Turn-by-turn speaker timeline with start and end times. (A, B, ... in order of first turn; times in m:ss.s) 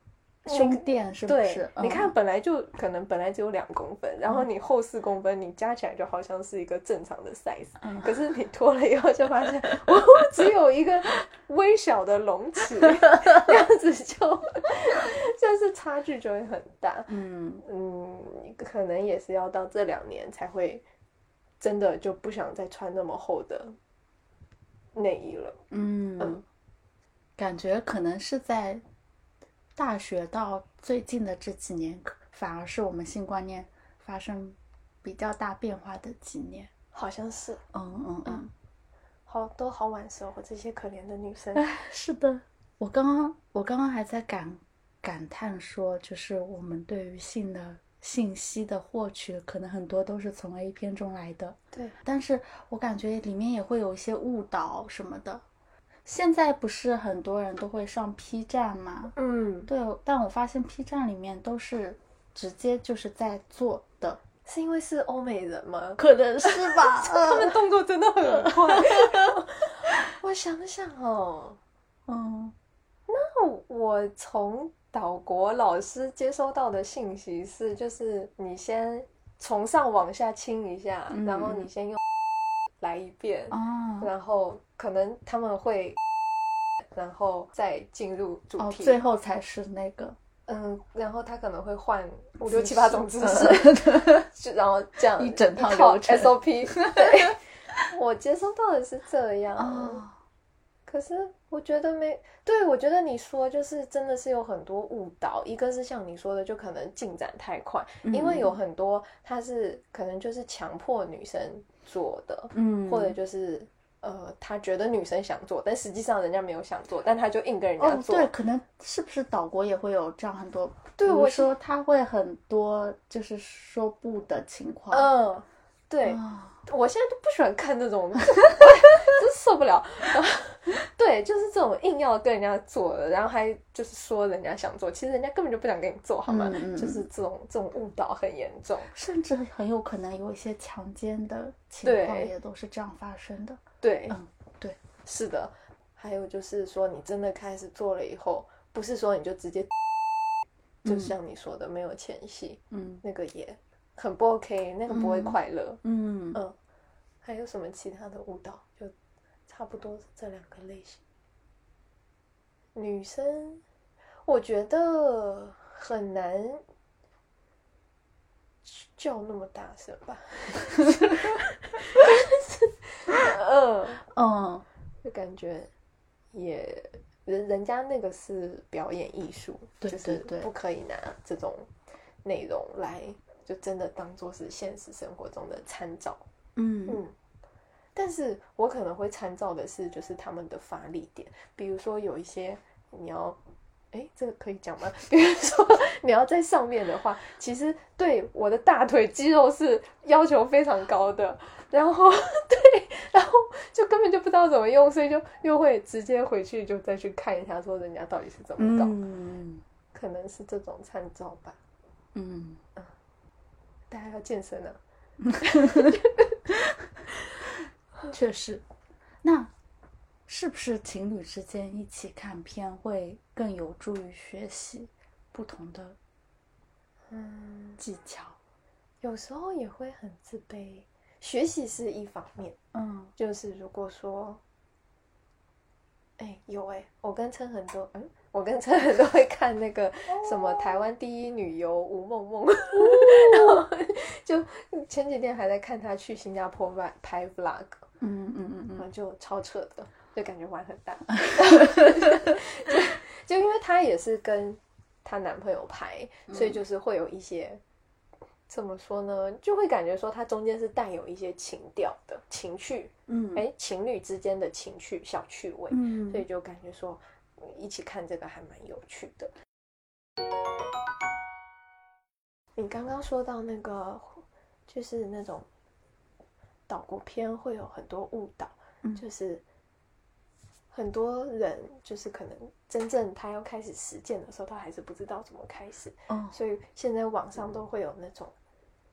0:00.4-0:02.1 A
0:00.4-0:20.8 B
0:17.1-0:17.6 A
0:21.6-0:23.8 B
0:24.9-0:25.6 B
0:25.7-0:26.4 A
0:27.4-0:28.8 A
0:29.8-0:36.7 A
0:36.9-0:37.6 B
0:37.7-0:38.5 A
0:39.3-0:41.7 B
0:41.6-0:55.4 A
0:56.0-0:59.1 A
0:59.2-0:59.7 B
0:59.7-1:04.2 A
1:04.4-1:11.6 B
1:06.0-1:07.6 A
1:08.3-1:09.3 A
1:12.1-1:12.5 A
1:13.1-1:22.0 B
1:21.1-1:21.7 A
1:22.8-1:26.0 B
1:23.5-1:24.1 A
1:26.9-1:29.0 B
1:28.6-1:30.2 A
1:30.5-1:40.0 B
1:32.5-1:34.3 A
1:35.2-1:37.3 A
1:39.6-1:40.1 A
1:40.9-1:58.3 B
1:48.0-1:48.6 A
1:52.5-1:53.2 A
1:57.8-2:05.1 A
2:01.0-2:01.5 B
2:04.9-2:18.9 B
2:06.0-2:06.6 A
2:16.3-2:17.0 A
2:18.9-2:24.8 A
2:21.8-2:22.3 B
2:23.8-2:24.2 B
2:25.0-2:29.7 B
2:30.8-2:31.1 A
2:30.8-2:35.8 B
2:32.7-2:33.0 A
2:34.9-2:36.4 A
2:37.2-2:38.9 B
2:39.5-2:41.0 B
2:42.7-2:43.6 B
2:44.2-2:46.6 B
2:48.6-2:54.0 B
2:54.1-2:54.6 A
2:55.0-2:55.7 B
2:56.3-3:01.7 B
2:59.8-3:00.5 A
3:02.2-3:06.2 B
3:06.6-3:07.0 A
3:06.9-3:07.1 B
3:07.9-3:13.4 B
3:13.9-3:29.0 B
3:28.6-3:29.6 A
3:29.9-3:31.6 B
3:32.1-3:32.6 A
3:33.9-3:34.8 B
3:35.3-3:36.0 A
3:35.4-3:36.4 B
3:38.1-3:38.6 A
3:39.2-3:39.5 A
3:40.3-3:46.0 A
3:47.1-3:47.8 B
3:47.8-3:48.4 A
3:49.0-3:52.6 B
3:52.7-3:53.1 A
3:53.2-3:54.4 B
3:56.2-4:07.8 B
4:00.1-4:00.7 A
4:02.8-4:03.6 A
4:08.0-4:08.8 A
4:08.8-4:17.6 B
4:11.3-4:12.3 A
4:16.3-4:16.6 A
4:18.5-4:29.3 B
4:23.1-4:23.4 A
4:25.7-4:26.2 A
4:32.6-4:35.4 B
4:36.7-4:39.4 B
4:40.7-4:48.3 B
4:46.1-4:46.3 A